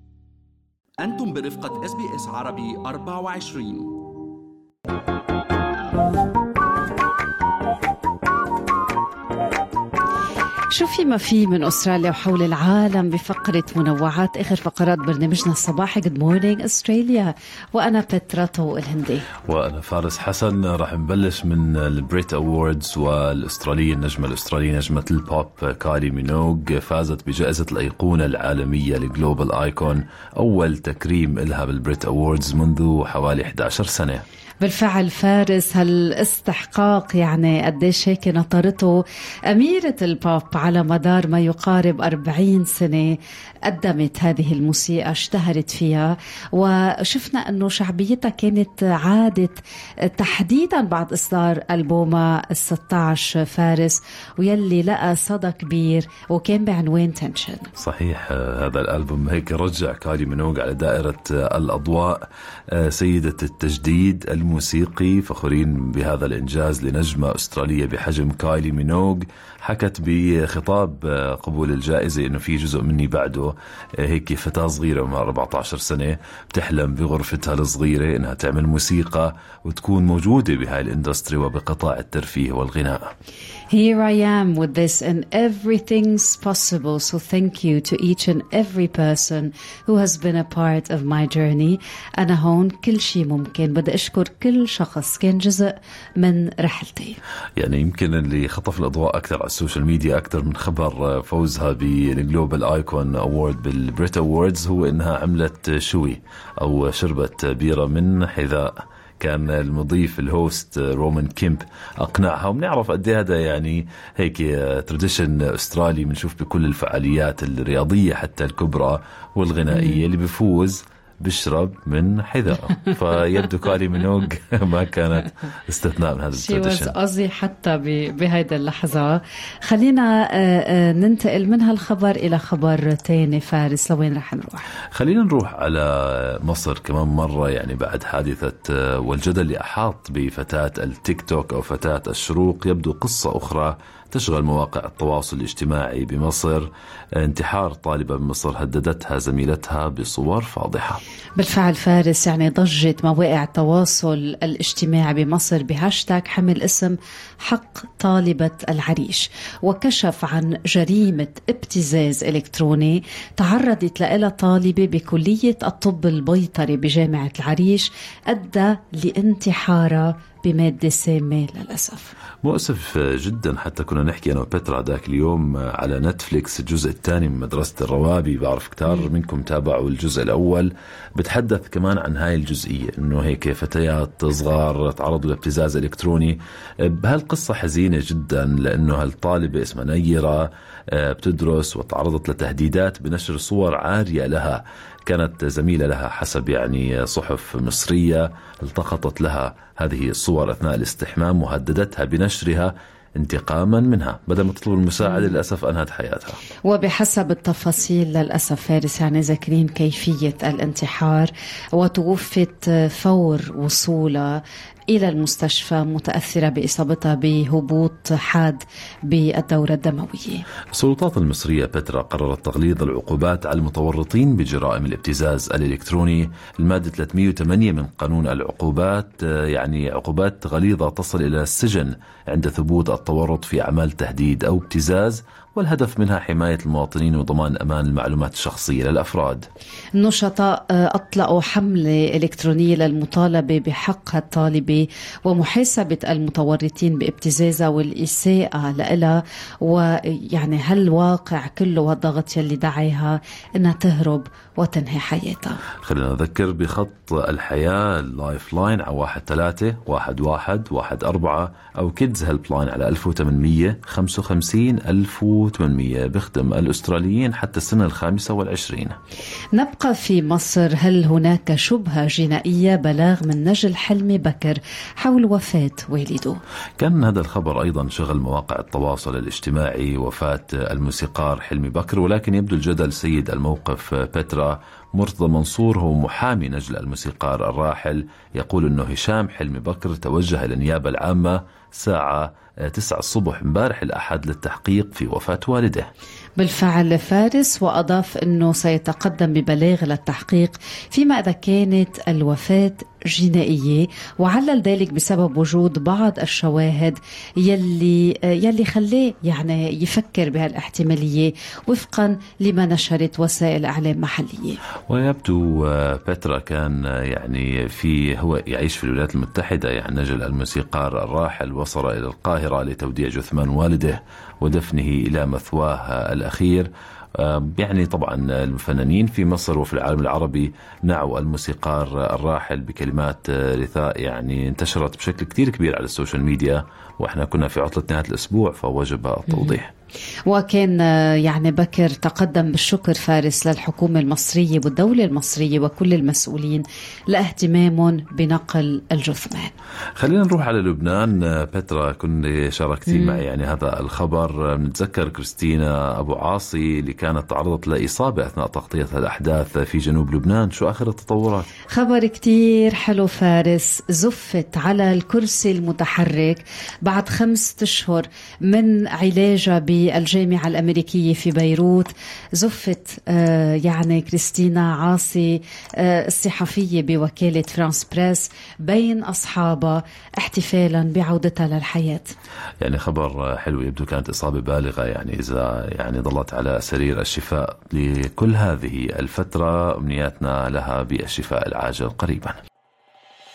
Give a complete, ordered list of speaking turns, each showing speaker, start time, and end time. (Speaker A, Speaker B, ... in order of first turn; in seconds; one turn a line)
Speaker A: 1.0-4.1
Speaker B: 10.7-19.3
Speaker C: 19.5-34.2
Speaker B: 34.6-57.7
Speaker C: 57.8-83.1
Speaker B: 83.7-97.2
Speaker C: 97.6-126.9
Speaker B: 119.7-120.0
Speaker B: 126.3-134.7
Speaker C: 134.9-151.0
Speaker B: 151.4-172.1
Speaker C: 172.4-206.4
Speaker B: 206.7-220.4
Speaker C: 220.7-239.4
Speaker B: 240.0-255.6
Speaker C: 255.8-268.9
Speaker B: 269.5-276.4
Speaker C: 276.8-295.9
Speaker B: 296.4-314.6
Speaker C: 314.9-339.7
Speaker B: 339.3-339.6
Speaker B: 340.3-349.5
Speaker C: 350.0-361.5
Speaker B: 352.9-353.2
Speaker B: 361.7-382.1
Speaker C: 382.6-392.4